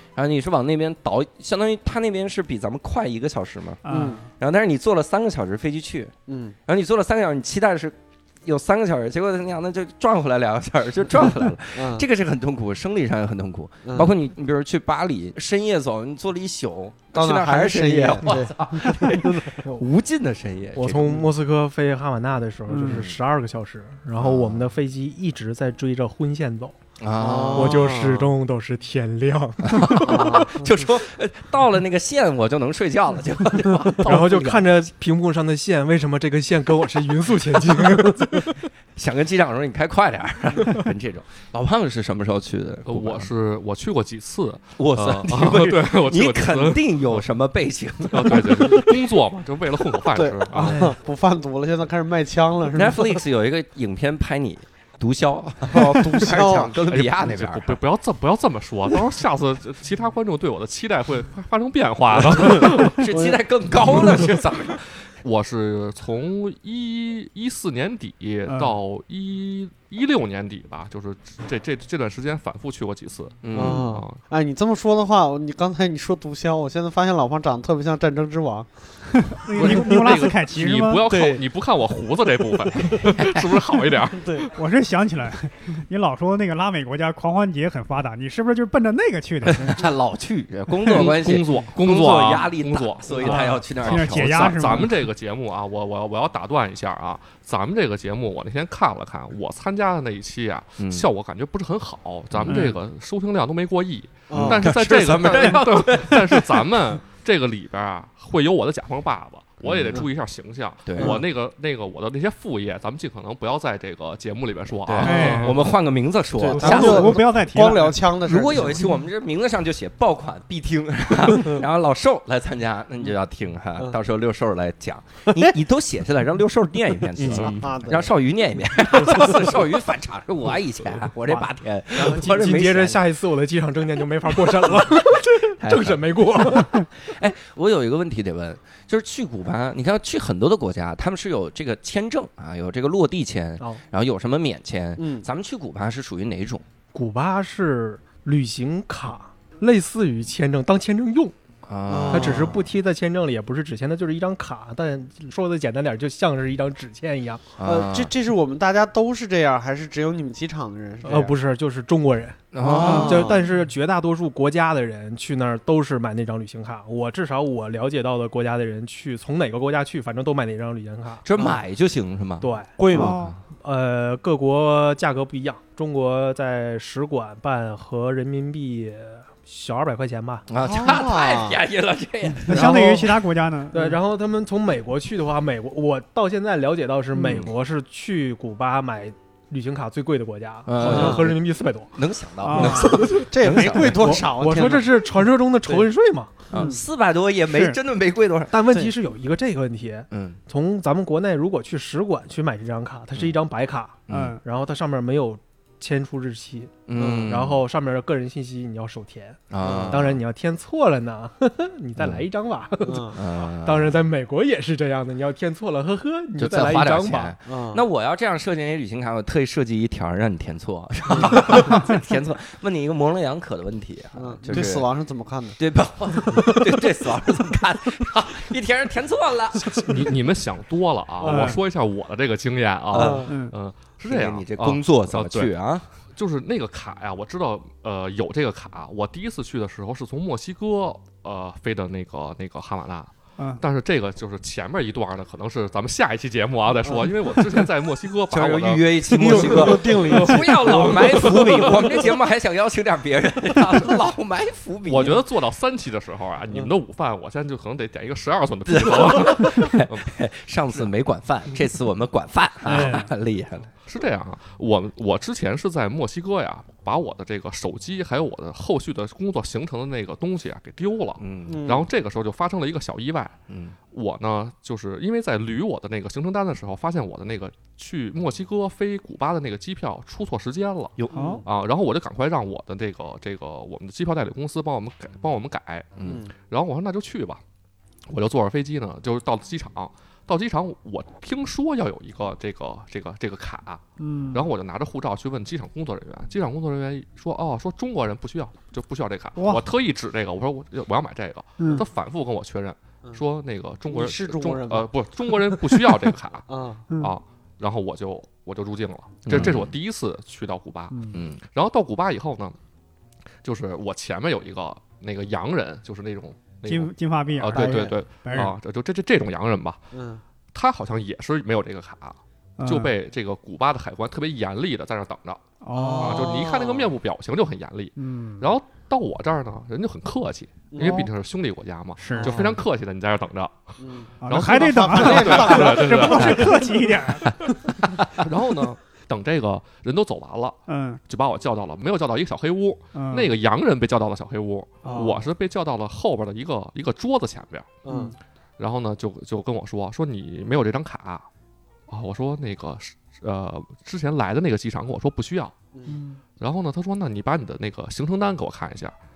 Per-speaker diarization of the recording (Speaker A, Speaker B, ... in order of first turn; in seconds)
Speaker A: 0.1-6.1, 6.7-21.2, 24.1-24.7, 27.0-27.9, 29.6-34.7, 39.0-43.3, 44.8-49.0, 52.7-57.8, 62.5-65.1, 73.4-73.9, 83.0-83.4, 89.4-94.9, 100.8-101.1, 102.3-102.7, 104.3-106.7, 109.6-110.1, 110.8-111.2, 114.8-117.2, 118.2-133.0, 134.4-146.6, 151.6-152.6, 157.6-158.1, 162.5-163.4, 171.2-173.4, 180.5-182.9, 187.2-187.5, 190.7-191.4, 191.9-194.2, 196.5-198.6, 200.1-200.4, 204.1-204.4, 206.9-207.6, 209.5-210.2, 212.0-212.2, 213.1-214.0, 216.4-224.9, 225.6-230.0, 232.9-233.2, 234.1-235.8, 248.3-255.3, 258.7-263.7, 271.2-271.7, 273.5-273.8, 281.0-281.2, 286.0-286.2, 309.3-309.7, 311.1-311.4, 336.2-336.6, 337.2-338.1
Speaker B: 3.8-4.2, 22.7-23.1, 68.5-68.8, 79.2-81.1, 84.5-89.8, 93.2-95.1, 102.5-102.8, 115.0-115.6, 116.4-118.0, 162.8-163.2, 172.9-173.3, 180.6-181.0, 182.4-183.9, 192.4-193.0, 197.5-197.8, 204.1-204.4, 231.2-231.6, 233.3-233.5, 262.6-263.1, 281.1-281.4, 294.0-294.5, 299.4-299.6, 301.6-301.8, 306.9-307.1, 310.9-311.2, 316.6-318.6, 322.6-322.9, 325.6-326.3, 328.0-328.5, 330.8-331.1, 332.0-332.5, 334.2-337.4, 340.7-341.0, 342.9-343.3, 344.8-345.1, 347.9-348.1, 355.9-356.2
Speaker C: 3.9-4.2, 6.3-6.5, 11.7-12.0, 13.8-14.1, 17.1-19.6, 27.1-28.3, 30.0-30.8, 50.1-53.2, 55.7-56.8, 62.3-63.4, 73.5-78.7, 79.5-80.3, 81.0-81.4, 82.6-83.0, 84.1-84.5, 104.3-104.7, 116.4-118.9, 127.1-128.1, 145.0-145.2, 151.9-152.6, 157.6-161.3, 162.6-163.4, 172.8-173.2, 180.7-181.6, 190.8-191.3, 192.6-195.0, 196.5-196.8, 206.9-207.3, 209.6-210.0, 212.8-213.2, 217.5-217.8, 221.1-221.7, 224.2-225.6, 226.1-226.8, 231.2-231.6, 232.9-233.3, 246.8-247.1, 249.1-251.9, 271.5-271.9, 281.1-281.4, 286.0-286.3, 303.9-305.9, 306.5-306.9, 317.5-317.9, 319.9-320.2, 325.7-326.9, 330.7-331.1, 332.1-332.6, 333.8-336.6, 344.9-345.2, 347.8-348.1
Speaker D: 20.8-26.8, 27.5-30.4, 34.0-38.6, 50.5-51.0, 128.9-129.4, 131.3-136.8, 146.9-151.3, 152.1-157.4, 161.0-171.2, 172.4-172.8, 173.5-180.5, 182.5-183.1, 183.7-191.9, 192.5-196.3, 198.5-217.3
Speaker E: 42.9-47.2, 48.1-50.8, 56.9-63.0, 65.2-74.2, 79.5-84.5, 90.8-115.6, 229.8-235.5, 236.1-252.0, 254.9-260.1, 263.8-273.4, 273.9-287.4, 288.1-312.6, 313.4-319.8, 320.5-336.7, 338.2-347.8, 348.6-351.2, 351.9-355.5, 356.4-358.9